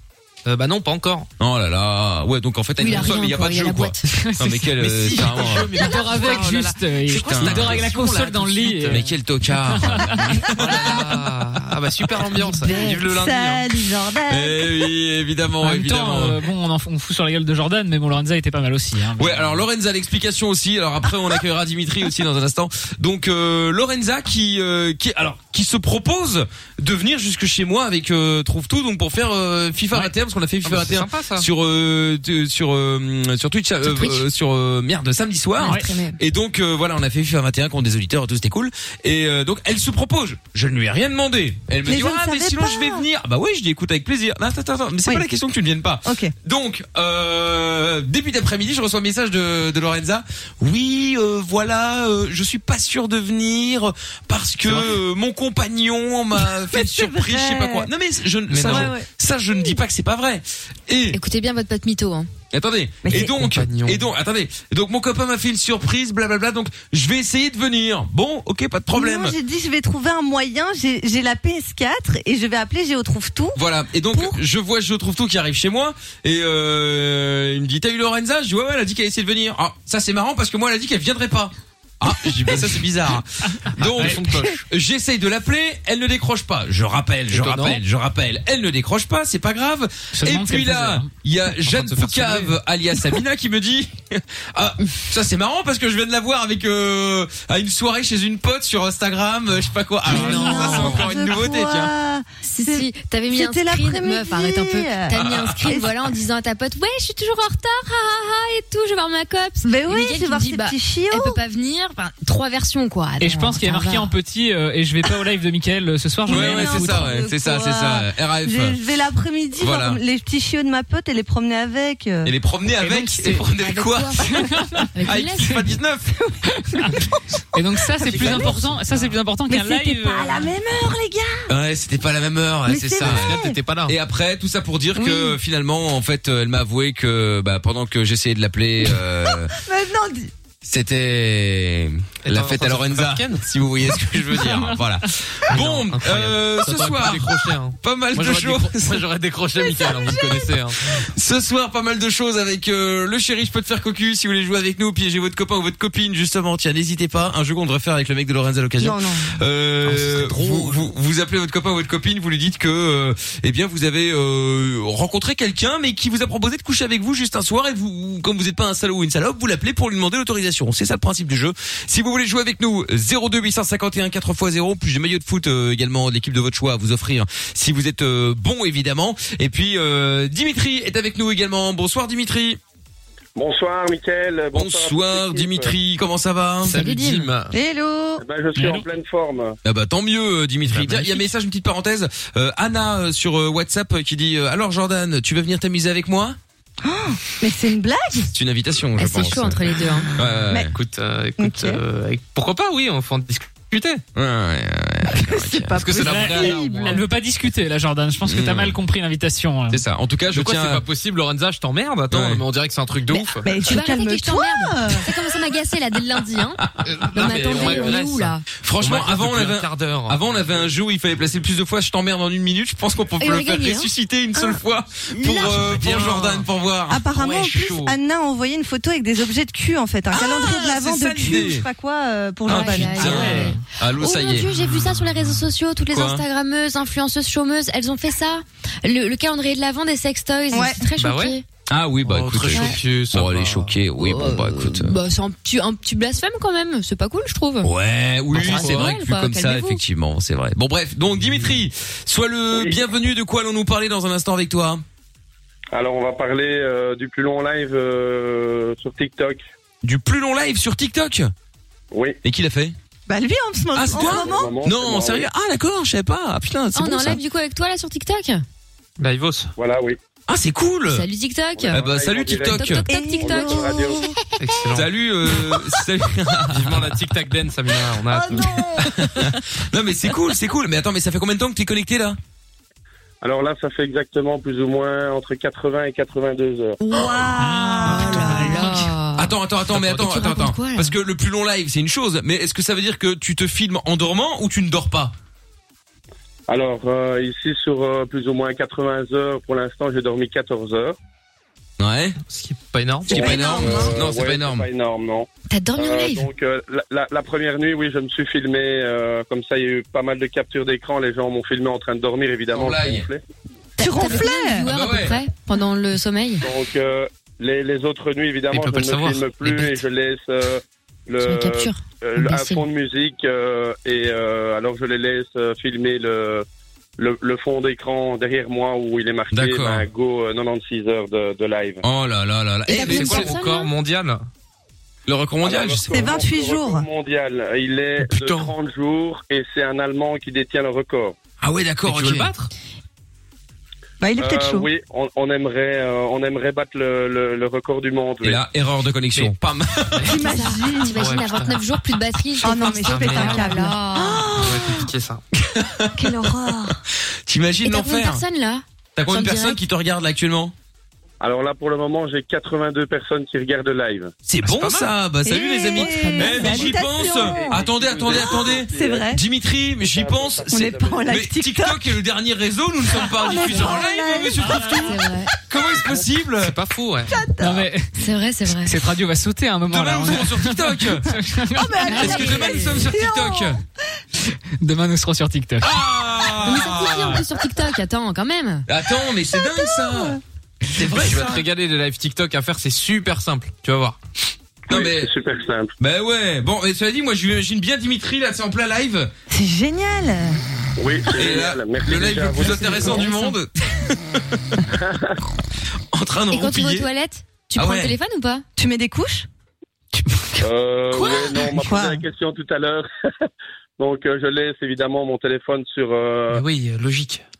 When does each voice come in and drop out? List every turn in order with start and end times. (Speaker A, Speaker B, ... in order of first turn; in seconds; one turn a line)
Speaker A: 0.4-1.3
Speaker B: 1.4-5.7
Speaker C: 2.8-4.1
Speaker D: 4.1-4.7
Speaker A: 4.8-9.1
Speaker D: 5.8-9.0
Speaker B: 7.1-7.9
Speaker B: 8.8-11.1
Speaker D: 9.7-11.0
Speaker A: 10.5-13.7
Speaker E: 12.4-14.7
Speaker B: 14.3-16.4
Speaker D: 15.6-19.6
Speaker B: 19.2-61.2
Speaker A: 30.6-31.4
Speaker C: 33.9-34.2
Speaker C: 35.6-36.2
Speaker D: 35.6-35.9
Speaker E: 41.9-43.0
Speaker E: 46.0-46.3
Speaker E: 56.7-57.9
Speaker A: 58.5-58.9
Speaker E: 58.6-59.0
Speaker C: 61.1-62.3
Speaker B: 62.5-69.3
Speaker E: 63.0-63.3
Speaker A: 63.2-64.1
Speaker E: 68.9-73.6
Speaker B: 73.5-101.9
Speaker E: 74.1-74.4
Speaker A: 82.2-82.8
Speaker A: 83.8-84.6
Speaker A: 87.3-87.8
Speaker D: 90.1-91.1
Speaker A: 91.6-92.6
Speaker E: 100.1-106.0
Speaker A: 100.1-101.5
Speaker C: 102.4-114.1
Speaker B: 105.1-105.6
Speaker E: 109.6-111.4
Speaker D: 113.2-117.1
Speaker E: 116.2-122.3
Speaker B: 116.3-118.8
Speaker B: 119.6-120.0
Speaker B: 122.2-124.2
Speaker C: 122.8-125.6
Speaker D: 124.3-124.9
Speaker B: 125.0-126.1
Speaker E: 126.3-126.9
Speaker D: 127.5-130.5
Speaker E: 127.9-128.8
Speaker E: 129.5-131.5
Speaker B: 131.5-139.5
Speaker E: 132.7-133.6
Speaker A: 133.0-133.9
Speaker E: 134.9-135.4
Speaker E: 139.5-140.3
Speaker B: 140.6-149.0
Speaker A: 142.2-143.4
Speaker D: 144.5-144.8
Speaker A: 145.5-151.0
Speaker B: 150.9-182.6
Speaker E: 158.8-159.3
Speaker A: 159.8-160.8
Speaker F: 183.3-185.7
Speaker B: 184.5-187.3
Speaker A: 186.6-187.5
Speaker E: 187.5-188.2
Speaker F: 188.2-189.6
Speaker D: 188.5-188.8
Speaker B: 189.6-196.4
Speaker A: 190.7-191.3
Speaker E: 196.8-198.3
Speaker B: 198.3-200.7
Speaker C: 198.9-200.1
Speaker A: 200.7-204.0
Speaker E: 201.4-201.8
Speaker B: 204.1-206.7
Speaker E: 205.1-207.0
Speaker D: 206.0-209.8
Speaker A: 206.2-207.0
Speaker B: 208.2-208.8
Speaker B: 209.7-210.8
Speaker A: 210.3-213.5
Speaker B: 212.1-212.4
Speaker C: 213.1-218.4
Speaker E: 213.4-215.1
Speaker A: 216.8-220.2
Speaker B: 217.4-217.9
Speaker B: 218.6-227.1
Speaker C: 223.2-223.9
Speaker A: 225.3-226.5
Speaker E: 226.9-233.3
Speaker A: 227.1-227.9
Speaker B: 230.1-231.7
Speaker C: 232.4-241.4
Speaker B: 232.4-234.5
Speaker A: 233.0-233.5
Speaker D: 233.2-233.5
Speaker B: 235.9-236.2
Speaker E: 240.5-240.8
Speaker A: 240.9-241.4
Speaker B: 241.7-244.9
Speaker A: 242.0-243.7
Speaker C: 242.5-242.8
Speaker C: 244.0-247.7
Speaker B: 247.6-254.8
Speaker A: 248.3-248.9
Speaker C: 248.4-249.8
Speaker F: 255.7-259.4
Speaker B: 259.8-261.3
Speaker F: 261.9-262.2
Speaker B: 262.2-262.7
Speaker E: 263.1-264.5
Speaker B: 263.7-267.2
Speaker F: 263.9-265.2
Speaker C: 266.7-268.4
Speaker A: 269.0-269.5
Speaker F: 269.6-270.0
Speaker B: 270.3-271.1
Speaker C: 270.9-271.8
Speaker F: 271.6-274.1
Speaker B: 271.7-272.9
Speaker C: 272.4-274.0
Speaker E: 272.9-274.2
Speaker A: 274.4-274.9
Speaker B: 274.7-276.9
Speaker A: 276.5-278.7
Speaker E: 278.1-279.3
Speaker B: 278.8-282.2
Speaker F: 283.2-286.8
Speaker E: 286.8-288.9
Speaker D: 287.4-288.6
Speaker C: 287.8-289.3
Speaker B: 289.1-295.1
Speaker C: 289.9-290.9
Speaker F: 296.5-300.9
Speaker B: 301.8-302.2
Speaker A: 302.3-303.1
Speaker E: 303.1-303.9
Speaker B: 303.1-304.7
Speaker F: 303.1-313.2
Speaker C: 305.5-306.3
Speaker B: 312.5-313.1
Speaker E: 313.8-314.7
Speaker C: 313.8-316.4
Speaker B: 314.6-315.2
Speaker F: 316.4-326.4
Speaker A: 318.5-319.8
Speaker C: 321.2-322.6
Speaker F: 327.0-331.8
Speaker B: 329.3-329.8
Speaker B: 331.8-333.3
Speaker C: 332.7-333.7
Speaker A: 332.7-334.2
Speaker B: 335.1-335.9
Speaker F: 335.4-341.1
Speaker E: 335.9-336.8
Speaker A: 338.0-338.5
Speaker B: 341.4-342.3
Speaker A: 341.9-342.5
Speaker E: 344.0-344.7
Speaker F: 344.2-348.4
Speaker B: 348.2-350.1
Speaker A: 350.0-351.6
Speaker E: 350.0-351.0
Speaker C: 350.1-354.4
Speaker E: 352.4-354.9
Speaker A: 352.8-353.6
Speaker A: 354.3-355.2
Speaker B: 355.5-356.7
Speaker E: 355.9-356.8
Speaker B: 357.3-358.2
Speaker C: 357.6-359.6
Speaker B: 358.9-360.5
Speaker F: 361.2-364.1
Speaker B: 364.2-376.5
Speaker E: 364.8-369.2
Speaker C: 365.7-366.6
Speaker F: 366.4-369.1
Speaker F: 369.8-371.1
Speaker E: 370.5-371.8
Speaker E: 373.0-374.6
Speaker C: 374.9-375.3
Speaker A: 376.4-377.1
Speaker E: 377.1-377.6
Speaker D: 377.4-377.9
Speaker C: 377.9-378.8
Speaker D: 378.6-382.6
Speaker B: 379.7-381.1
Speaker E: 381.6-383.6
Speaker B: 381.9-383.6
Speaker D: 384.6-385.8
Speaker B: 385.6-387.2
Speaker C: 386.4-388.6
Speaker B: 388.7-390.2
Speaker E: 389.4-390.2
Speaker B: 390.7-391.4
Speaker A: 390.8-394.0
Speaker B: 394.7-395.1
Speaker F: 394.7-395.7
Speaker B: 395.8-399.1
Speaker E: 399.3-400.4
Speaker F: 400.8-403.1
Speaker B: 401.1-404.6
Speaker C: 402.7-403.3
Speaker F: 404.7-405.2
Speaker B: 405.9-406.9
Speaker C: 406.3-408.4
Speaker B: 407.6-407.9
Speaker E: 408.6-409.3
Speaker E: 410.0-412.0
Speaker F: 410.4-412.9
Speaker F: 413.8-416.4
Speaker A: 416.3-417.2